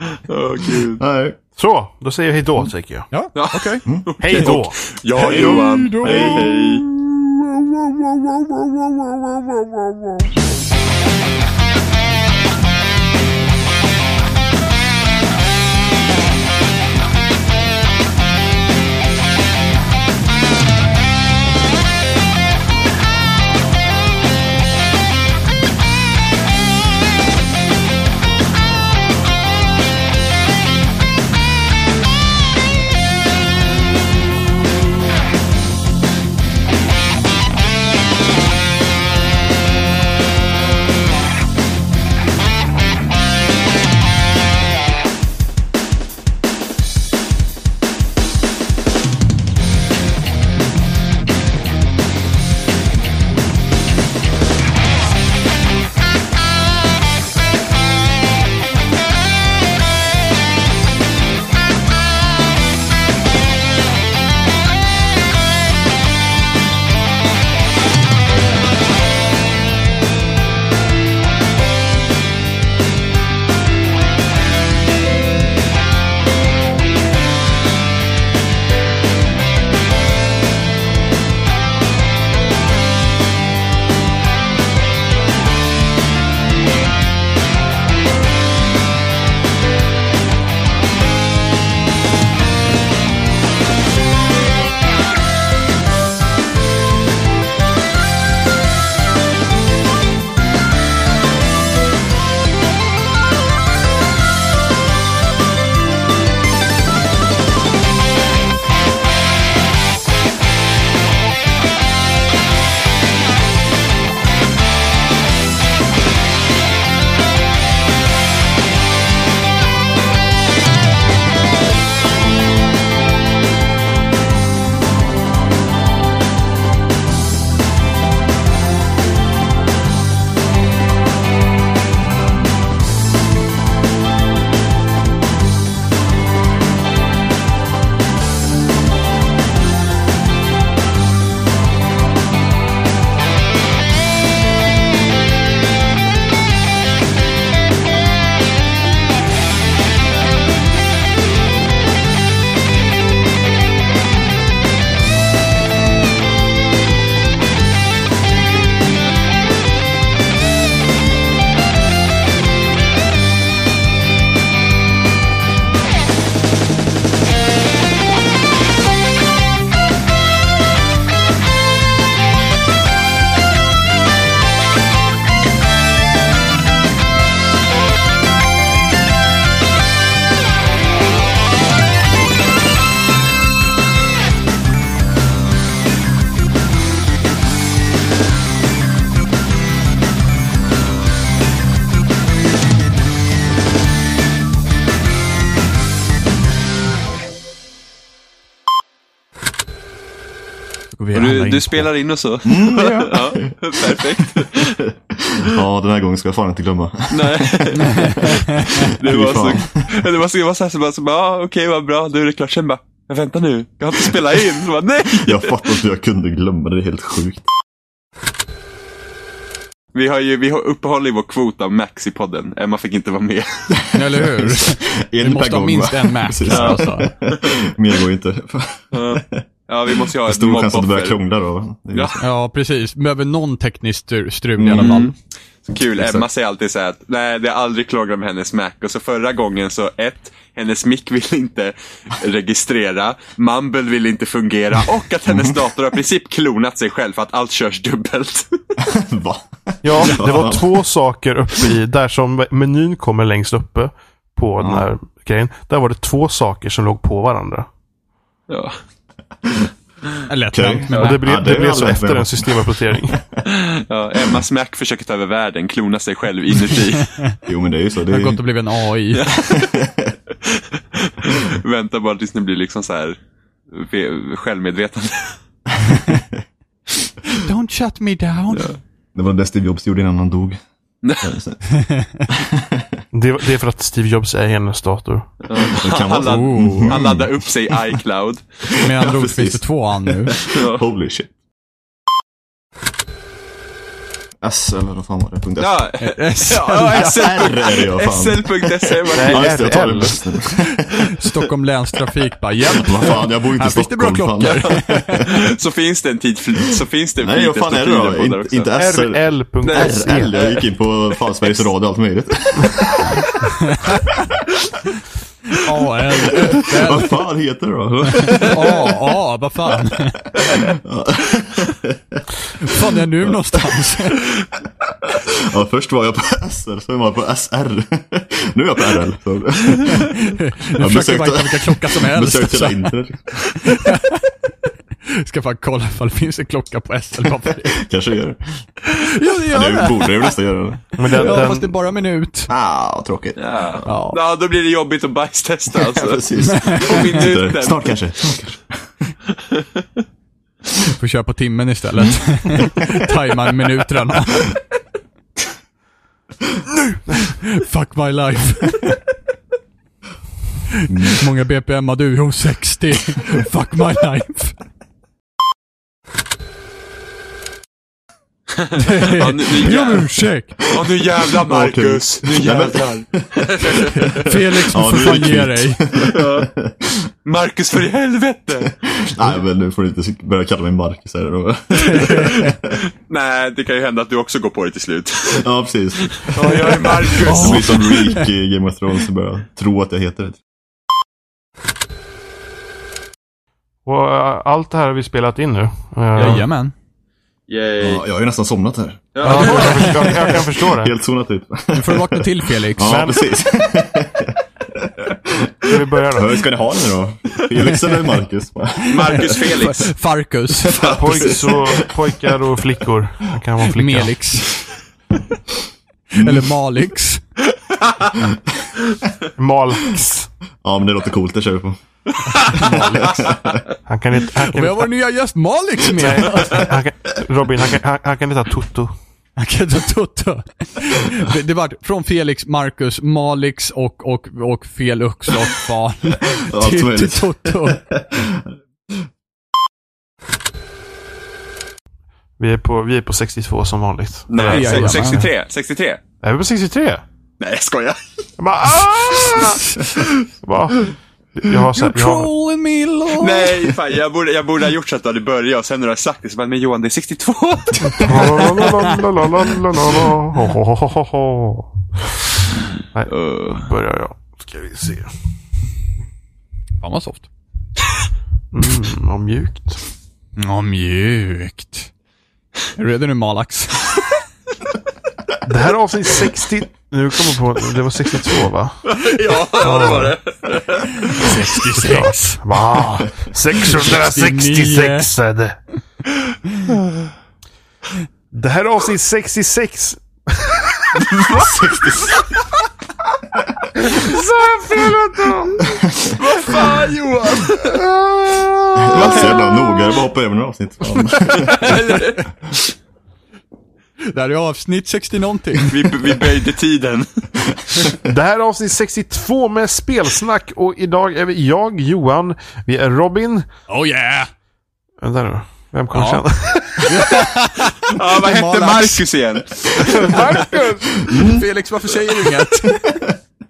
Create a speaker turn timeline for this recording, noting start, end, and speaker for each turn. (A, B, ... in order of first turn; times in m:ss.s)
0:00.3-0:01.0 A
0:01.0-0:01.4 B
0:01.6-0:03.1 C
0:03.1-0:03.8 D
0:03.3-0:06.8 A
0:03.8-0:04.4 B
0:04.2-0:04.7 C
0:05.2-0:06.5 D
0:05.2-0:06.6 B
3:20.9-3:21.9 D
3:21.1-3:24.8 A
3:22.4-3:30.0 B
3:27.1-3:35.7 A
3:28.0-3:28.7 D
3:35.2-3:37.5 B
3:39.9-3:43.7 A
3:43.8-3:49.4 B
3:43.9-3:47.1 D
3:46.5-3:46.8 A
3:48.9-3:51.2 A
3:50.0-3:52.2 B
3:51.9-3:52.2 A
3:52.2-3:55.1 D
3:54.6-3:55.0 B
3:54.7-4:08.6 A
3:56.0-3:56.2 B
4:05.3-4:05.6 B
4:08.8-4:10.7 B
4:09.8-4:17.7 C
4:14.6-4:14.9 B
4:18.5-4:18.7 A
4:20.3-4:21.2 D
4:20.5-4:23.4 B
4:20.9-4:23.2 C
4:23.4-4:27.2 A
4:27.4-4:28.4 B
4:28.1-4:29.3 D
4:29.1-4:29.7 A
4:29.4-4:30.2 B
4:30.4-4:33.2 A
4:33.7-4:35.4 A
4:35.9-4:36.4 B
4:37.3-4:38.7 D
4:38.5-4:38.8 A
4:39.1-4:40.6 B
4:41.0-4:41.3 A
4:41.2-4:41.7 B
4:41.7-4:42.2 D
4:42.3-4:43.0 B
4:43.1-4:45.3 C
4:45.4-4:48.4 A
4:45.7-4:47.2 B
4:46.2-4:47.1 D
4:48.8-4:50.3 D
4:48.8-4:51.3 B
4:50.5-4:50.8 A
4:54.4-4:55.8 B
4:55.6-4:59.7 A
4:56.0-4:57.5 D
4:56.8-5:01.5 B
4:59.1-5:00.2 C
5:00.8-5:05.3 D
5:02.7-5:05.4 B
5:04.5-5:08.7 A
5:07.2-5:13.2 B
5:08.8-5:10.3 C
5:09.6-5:10.7 A
5:13.1-5:14.1 D
5:15.5-5:17.2 D
5:16.2-5:18.9 B
5:18.4-5:20.2 D
5:20.4-5:22.3 B
5:22.6-5:24.2 D
5:22.8-5:23.8 B
5:24.8-5:33.6 B
5:30.0-5:37.8 D
5:37.6-5:38.6 B
5:38.9-5:40.4 D
5:39.4-5:41.3 B
5:41.0-5:41.7 C
5:41.1-5:42.5 D
5:42.5-5:43.4 B
5:43.4-5:47.9 A
5:43.8-5:44.2 D
5:45.8-5:48.9 B
5:46.5-5:47.0 D
5:49.3-5:49.8 A
5:50.8-5:54.5 D
5:52.6-5:53.0 B
5:57.3-5:59.0 D
6:00.8-6:04.6 D
6:00.9-6:01.2 B
6:08.6-6:10.1 A
6:08.8-6:10.5 D
6:10.7-6:14.2 A
6:11.4-6:17.1 B
6:14.1-6:15.8 D
6:16.1-6:16.5 A
6:17.2-6:18.7 A
6:18.8-6:22.8 B
6:21.8-6:22.5 D
6:21.8-6:25.4 A
6:25.4-6:30.4 B
6:26.1-6:27.8 A
6:27.1-6:28.3 D
6:33.8-6:36.5 C
6:36.1-6:36.7 D
6:37.5-6:38.0 A
6:37.8-6:49.4 B
6:39.1-6:39.9 A
6:39.2-6:40.9 C
6:39.3-6:40.3 D
6:41.7-6:42.9 D
6:42.8-6:43.2 C
6:45.7-6:46.4 C
6:48.9-6:49.9 A
6:48.9-6:51.2 D
6:50.6-6:51.9 B
6:50.8-6:54.2 C
6:53.6-6:54.6 D
6:56.1-6:57.2 D
6:57.8-6:58.1 A
6:59.4-7:00.3 C
7:00.6-7:01.8 B
7:02.3-7:03.3 A
7:02.5-7:03.6 B
7:02.6-7:02.8 D
7:03.9-7:04.9 C
7:04.4-7:06.7 D
7:05.9-7:08.9 C
7:09.4-7:17.8 D
7:16.4-7:18.4 B
7:22.4-7:25.2 C
7:24.3-7:26.0 A
7:24.5-7:25.3 D
7:26.2-7:27.0 C
7:27.4-7:28.0 A
7:28.4-7:32.3 C
7:31.6-7:33.7 D
7:33.1-7:38.6 A
7:37.9-7:41.8 C
7:42.9-7:45.1 C
7:43.1-7:43.6 A
7:46.8-7:47.3 D
7:48.5-7:49.8 C
7:50.4-7:51.9 D
7:52.8-7:54.0 D
7:55.4-7:58.8 C
7:58.8-8:01.3 A
7:59.5-8:00.2 C
8:01.0-8:02.4 D
8:01.2-8:05.6 C
8:03.6-8:05.1 D
8:08.3-8:11.3 C
8:11.2-8:11.5 A
8:11.3-8:12.2 B
8:13.3-8:13.7 B
8:13.8-8:15.7 C
8:14.0-8:15.0 A
8:16.2-8:17.9 A
8:18.8-8:21.8 B
8:18.9-8:19.4 A
8:18.9-8:19.5 C
8:21.3-8:22.2 A
8:24.1-8:26.1 D
8:25.7-8:27.1 A
8:28.0-8:33.5 C
8:33.7-8:34.3 D
8:35.0-8:37.3 C
8:35.9-8:36.2 D
8:36.8-8:39.0 D
8:37.8-8:40.4 A
8:39.7-8:41.0 C
8:41.0-8:41.5 B
8:41.1-8:42.8 D
8:42.6-8:43.2 B